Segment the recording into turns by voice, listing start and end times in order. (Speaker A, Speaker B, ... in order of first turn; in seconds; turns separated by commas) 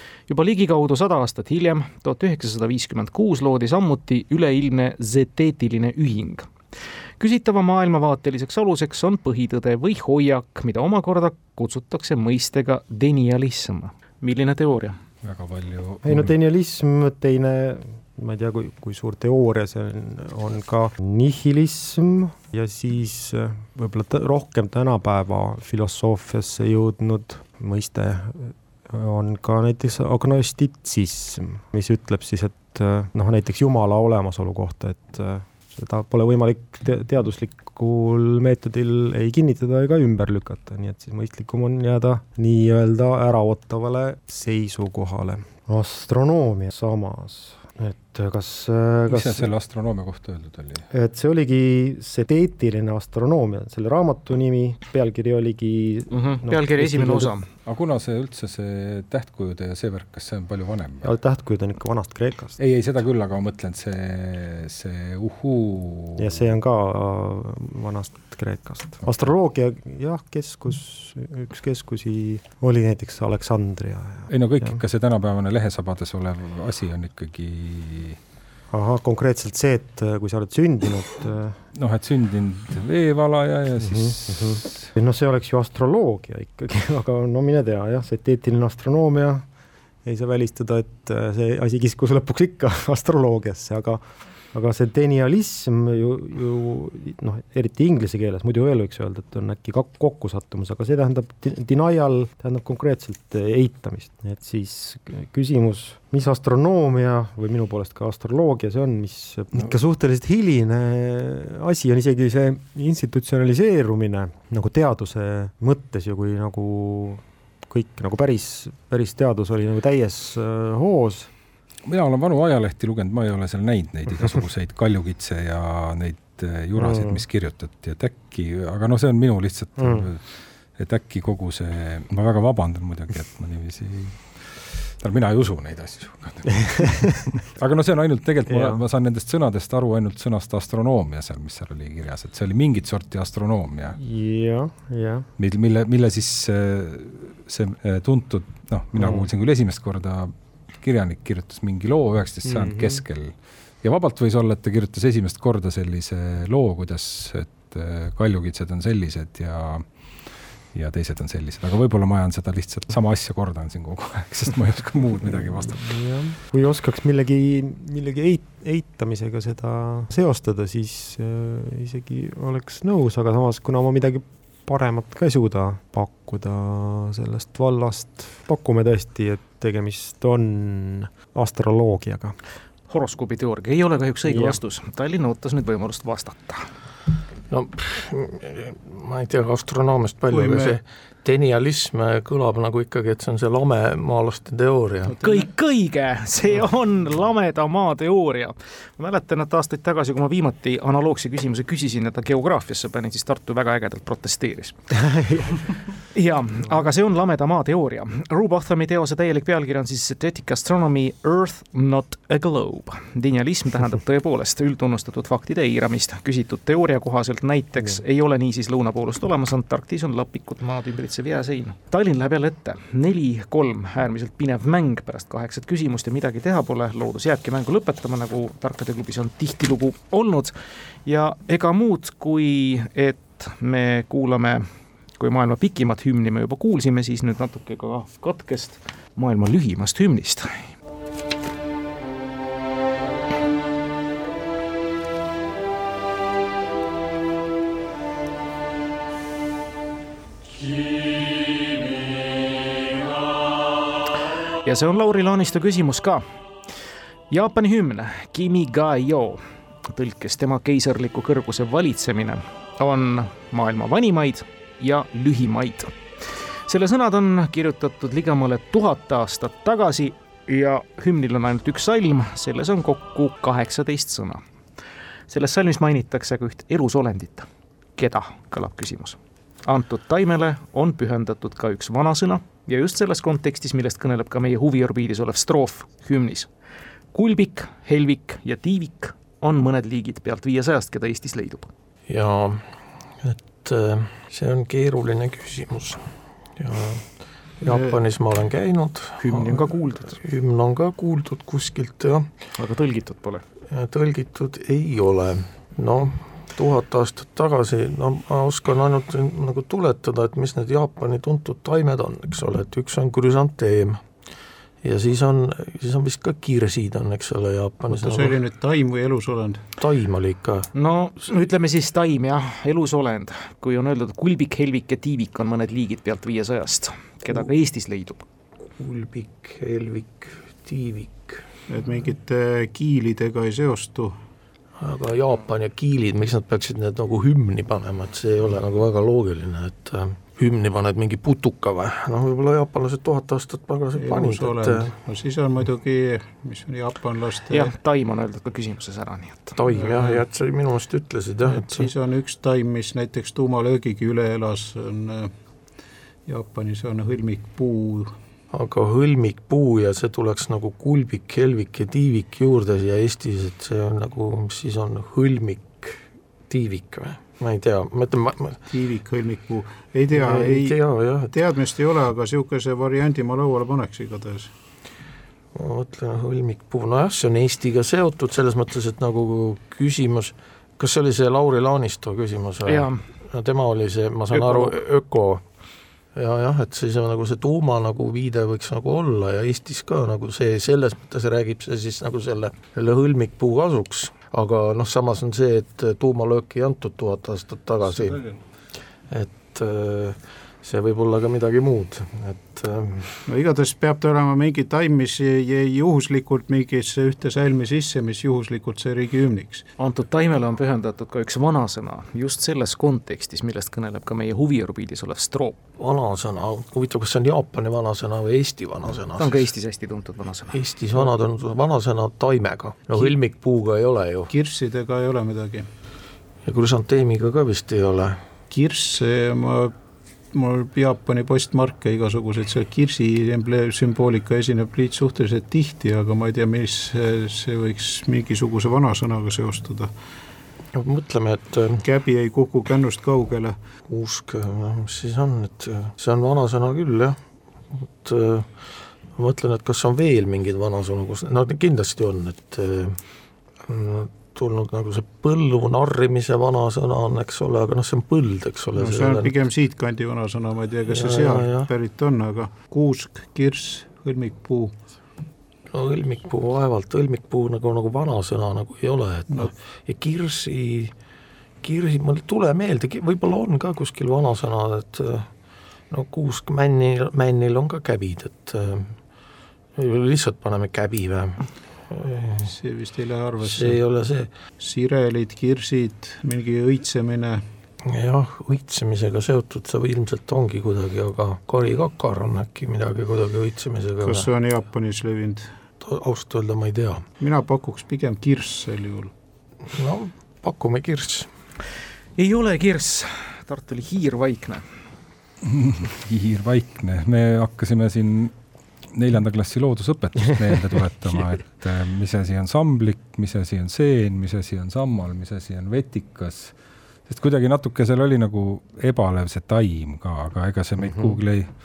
Speaker A: 0.3-6.5, Speaker A: 7.2-15.0, Speaker B: 15.2-16.3, Speaker C: 16.0-49.5, Speaker B: 49.1-50.8, Speaker C: 50.9-57.3, Speaker A: 56.1-57.5, Speaker B: 57.6-61.1, Speaker C: 61.0-62.5, Speaker B: 62.6-66.5, Speaker C: 66.2-74.8, Speaker B: 74.3-78.2, Speaker C: 78.7-81.6, Speaker B: 81.8-84.9, Speaker C: 83.8-89.5, Speaker C: 90.0-94.0, Speaker C: 94.5-121.3, Speaker B: 121.8-144.0, Speaker C: 126.8-127.2, Speaker C: 129.8-130.1, Speaker C: 138.5-138.8, Speaker C: 144.0-145.3, Speaker B: 145.4-166.0, Speaker C: 148.9-149.3, Speaker C: 152.4-153.0, Speaker C: 165.6-182.3, Speaker A: 182.9-186.7, Speaker C: 184.2-184.6, Speaker D: 187.5-195.2, Speaker E: 190.3-190.8, Speaker E: 195.1-195.5, Speaker A: 195.2-204.8, Speaker C: 204.9-205.6, Speaker A: 206.1-230.5, Speaker A: 231.1-234.7, Speaker A: 235.2-240.7, Speaker A: 254.6-256.2, Speaker A: 257.3-265.9, Speaker A: 266.7-274.4, Speaker A: 275.3-286.5, Speaker A: 287.1-291.7, Speaker D: 292.1-292.7, Speaker D: 293.2-302.3, Speaker E: 297.6-298.0, Speaker A: 299.2-300.2, Speaker A: 302.6-303.4, Speaker D: 303.7-314.0, Speaker D: 314.8-318.4, Speaker E: 317.9-319.6, Speaker D: 319.8-320.7, Speaker A: 320.7-328.2, Speaker D: 328.7-331.4, Speaker E: 331.7-334.1, Speaker D: 334.8-344.9, Speaker E: 344.0-347.7, Speaker A: 347.5-349.6, Speaker D: 349.6-351.9, Speaker E: 349.7-350.2, Speaker E: 351.5-355.3, Speaker E: 356.3-358.1, Speaker D: 358.5-368.6, Speaker E: 368.7-370.8, Speaker D: 370.1-371.3, Speaker E: 371.3-374.5, Speaker D: 375.5-385.4, Speaker A: 382.6-383.0, Speaker A: 384.3-384.7, Speaker D: 386.1-398.4, Speaker D: 399.1-403.2, Speaker E: 403.3-409.7, Speaker A: 409.8-415.6, Speaker D: 415.8-419.4, Speaker A: 419.1-420.6, Speaker D: 420.5-424.3, Speaker E: 424.3-425.6, Speaker D: 426.4-428.2, Speaker E: 428.5-429.7, Speaker E: 430.3-439.9, Speaker D: 440.7-441.8, Speaker E: 441.8-443.6, Speaker D: 443.9-447.2, Speaker D: 448.0-453.0, Speaker D: 453.6-459.3, Speaker E: 458.8-464.7, Speaker D: 460.9-461.7, Speaker D: 465.7-470.9, Speaker D: 471.6-475.3, Speaker D: 475.9-479.0, Speaker D: 479.8-482.5, Speaker E: 482.4-483.8, Speaker D: 483.4-484.3, Speaker E: 484.6-487.4, Speaker D: 487.8-494.3, Speaker E: 494.0-495.5, Speaker D: 495.8-497.0, Speaker E: 497.2-499.1, Speaker D: 499.6-501.3, Speaker A: 502.2-504.6, Speaker B: 505.4-508.3, Speaker B: 508.9-516.5, Speaker B: 517.1-521.5, Speaker C: 520.8-521.2